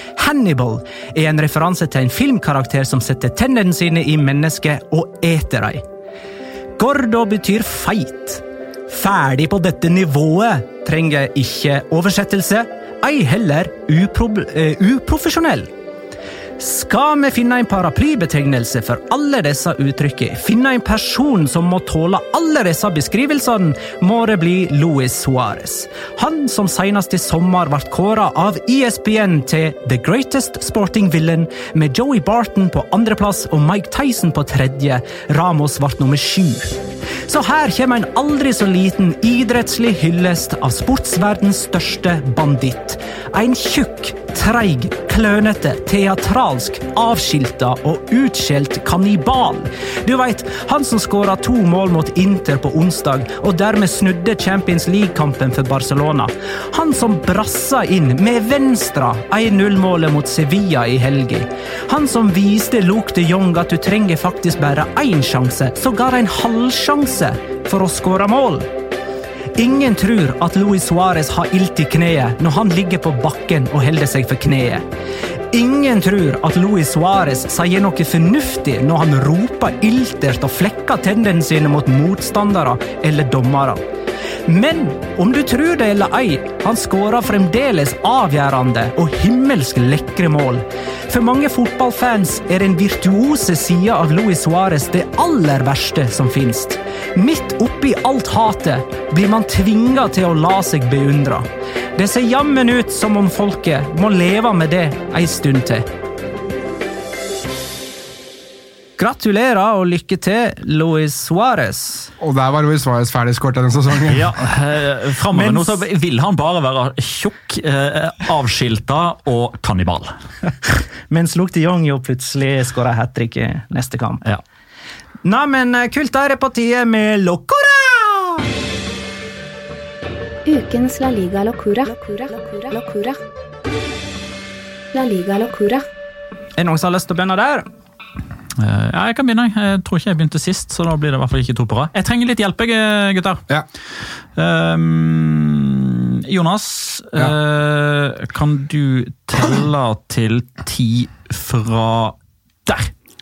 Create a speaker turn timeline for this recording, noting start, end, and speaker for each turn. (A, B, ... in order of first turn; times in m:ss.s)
0:00.2-0:05.8 A
0:06.8-0:15.7 A
0:16.6-1:08.7 A
1:09.6-1:14.8 A
1:15.5-1:23.8 A
1:24.5-1:45.9 A
1:49.0-1:52.1 A
1:52.2-1:54.3 B
1:54.1-2:00.1 C
1:55.3-1:55.8 A
2:01.1-2:04.2 A
2:05.2-2:08.4 A
2:10.5-2:13.2 D
2:14.9-2:15.8 D
2:16.6-2:17.6 A
2:18.6-2:23.4 C
2:24.4-2:32.9 C